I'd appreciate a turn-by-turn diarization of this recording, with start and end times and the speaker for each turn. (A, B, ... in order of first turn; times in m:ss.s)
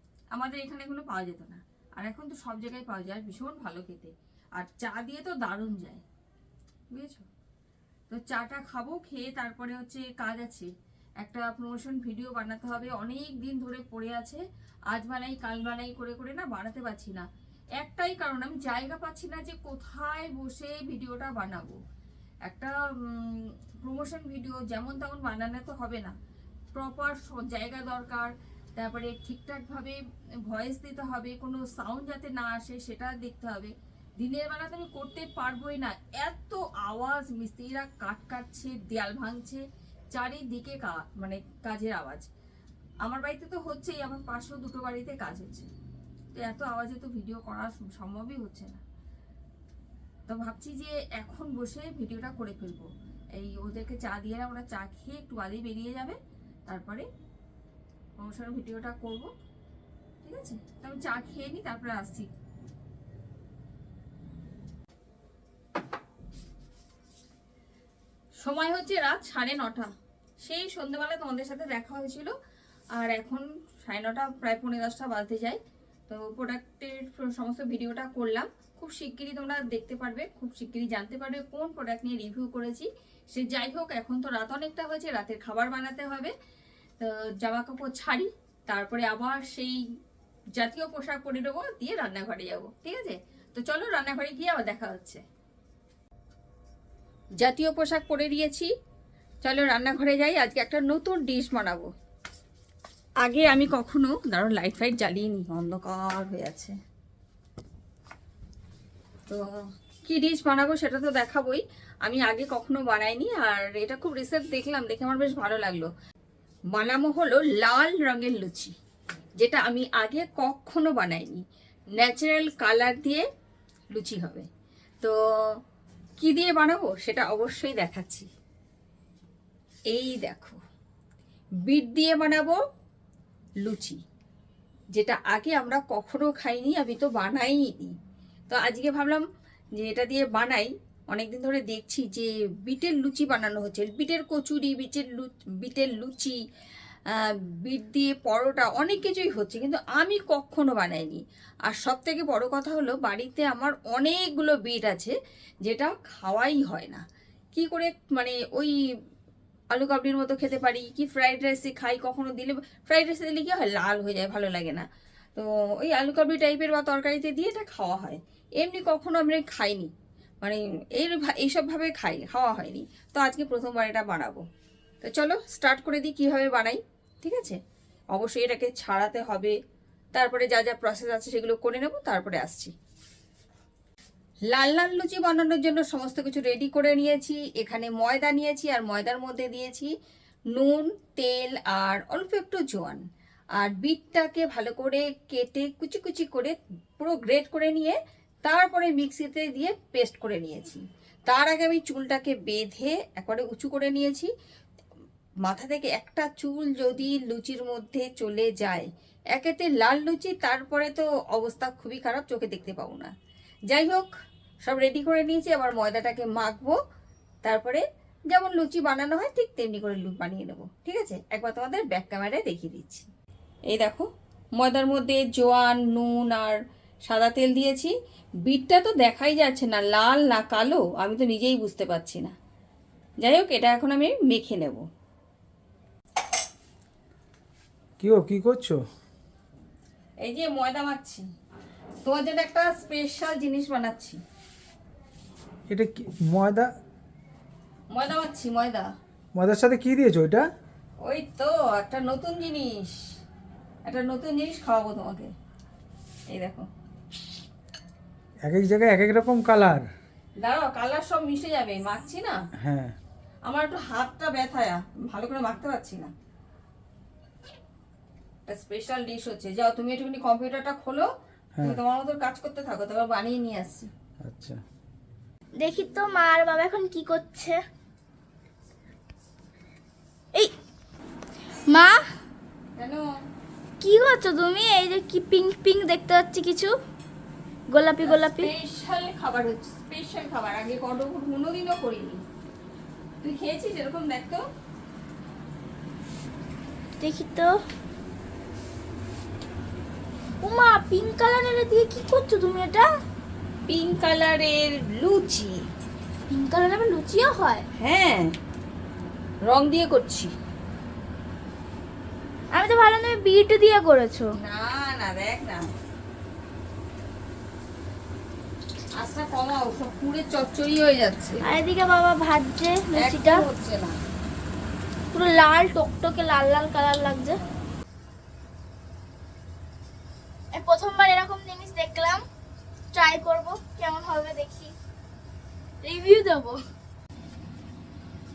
0:00.3-0:06.0 A
0:06.9-0:07.3 A
0:08.1-0:10.7 A
0:11.2-0:17.3 A
0:17.8-0:21.8 A
0:22.4-0:26.2 A
0:26.7-0:42.3 A
0:43.0-0:45.7 A
0:46.4-0:48.8 A
0:50.3-0:57.1 A
0:58.2-0:59.3 A
1:00.2-1:02.3 A
1:08.4-1:12.3 A
1:13.0-1:26.3 A
1:27.0-1:29.8 A
1:30.6-1:35.2 A
1:37.4-1:38.7 A
1:39.4-1:41.9 A
1:43.2-1:46.8 A
1:50.0-1:55.9 A
1:56.7-1:58.7 A
1:59.4-2:03.2 A
2:03.9-2:04.5 A
2:05.0-2:05.6 A
2:06.2-2:08.3 A
2:09.9-2:10.6 A
2:11.6-2:12.6 A
2:13.6-2:14.0 A
2:14.9-2:17.9 A
2:18.5-2:19.2 A
2:19.8-2:26.4 A
2:27.1-2:37.0 A
2:37.6-2:38.8 A
2:39.7-2:49.9 A
2:50.4-2:54.4 A
2:55.0-2:57.6 A
2:58.1-2:59.6 A
3:00.1-3:02.7 A
3:04.5-3:09.9 A
3:10.5-3:13.0 A
3:13.6-3:24.3 A
3:25.5-3:33.1 A
3:33.7-3:34.1 A
3:34.6-3:36.8 A
3:37.4-3:43.1 A
3:43.7-3:44.1 A
3:44.6-3:47.9 A
3:48.4-3:52.3 A
3:53.2-3:54.8 A
3:58.0-3:58.8 B
4:00.2-4:01.2 A
4:02.0-4:04.2 A
4:05.7-4:06.7 B
4:07.9-4:08.9 A
4:09.3-4:10.5 B
4:11.0-4:13.1 A
4:13.9-4:15.3 A
4:16.3-4:16.7 A
4:18.4-4:19.9 B
4:20.4-4:22.4 A
4:22.6-4:23.0 B
4:23.5-4:26.1 A
4:28.5-4:31.1 A
4:31.6-4:31.8 B
4:31.6-4:33.9 A
4:34.2-4:34.6 B
4:35.6-4:37.6 C
4:41.7-4:42.0 C
4:42.8-4:43.0 A
4:43.8-4:46.8 C
4:47.7-4:48.5 C
4:48.0-4:52.2 A
4:53.2-4:54.4 A
4:57.0-4:57.6 C
5:00.4-5:02.9 C
5:03.7-5:05.7 A
5:06.3-5:07.7 C
5:07.8-5:08.4 A
5:09.4-5:10.3 A
5:12.5-5:14.3 C
5:14.4-5:15.7 A
5:19.0-5:21.5 A
5:21.4-5:23.4 C
5:23.0-5:24.0 A
5:25.1-5:27.4 C
5:30.5-5:32.2 C
5:32.9-5:34.8 C
5:35.8-5:36.6 C